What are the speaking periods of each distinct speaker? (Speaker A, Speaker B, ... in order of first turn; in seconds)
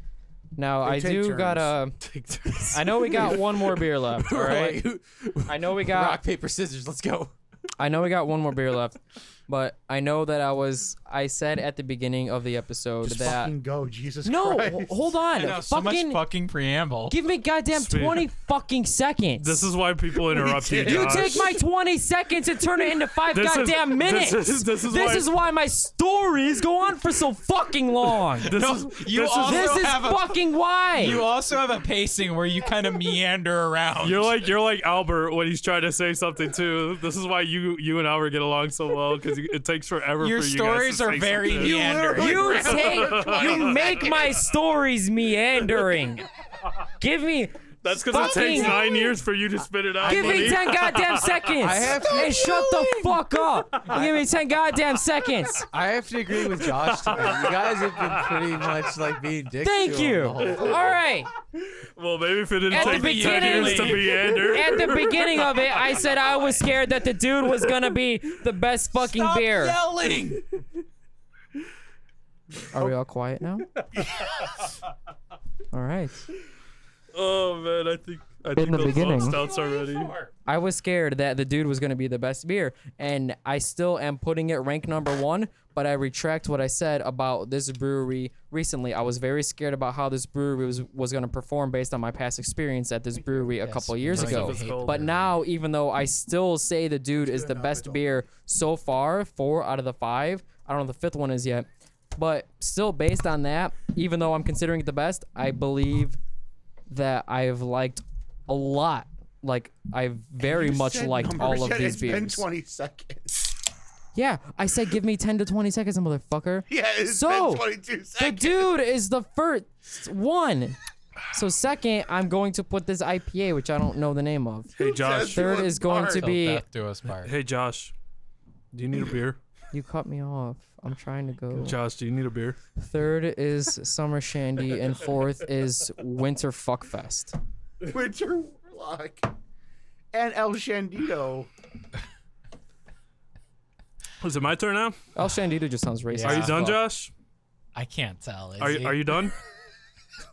Speaker A: 0.6-2.0, 2.6-4.8, 5.5-6.2, 7.8-13.5, 14.2-16.2, 17.1-19.7, 20.7-28.6, 29.4-31.2, 42.1-46.2, 47.0-48.8, 50.0-55.7, 59.6-61.3, 62.7-69.8, 72.7-73.7, 75.7-76.3, 78.5-79.4, 80.5-106.2, 106.9-112.4, 114.2-120.8, 121.3-126.6, 129.7-131.8, 132.8-137.4, 145.2-146.8
Speaker B: 0.8-1.7, 13.0-14.9, 20.3-21.6, 41.5-44.2, 93.2-93.6, 97.2-98.2, 110.4-113.5, 116.7-118.7, 124.8-126.3, 137.8-139.3, 140.1-141.5
Speaker C: 2.0-7.3, 50.0-50.6, 51.5-53.2, 53.8-54.2, 55.7-61.0, 94.3-94.6
Speaker D: 15.3-17.2, 28.5-34.4, 40.2-43.0, 62.7-64.2, 69.0-70.5, 79.0-80.3, 93.6-95.3, 126.1-127.3, 146.1-146.7, 147.8-149.0
Speaker E: 17.7-18.3, 19.4-21.6, 23.2-25.3, 28.4-29.9, 34.0-41.9, 42.6-44.0, 47.8-51.5, 56.4-58.8, 61.6-66.0, 77.1-80.2, 94.1-95.1, 124.8-125.6, 127.2-127.9, 128.7-129.4, 131.6-132.6, 144.2-145.0, 146.2-147.1, 148.6-149.4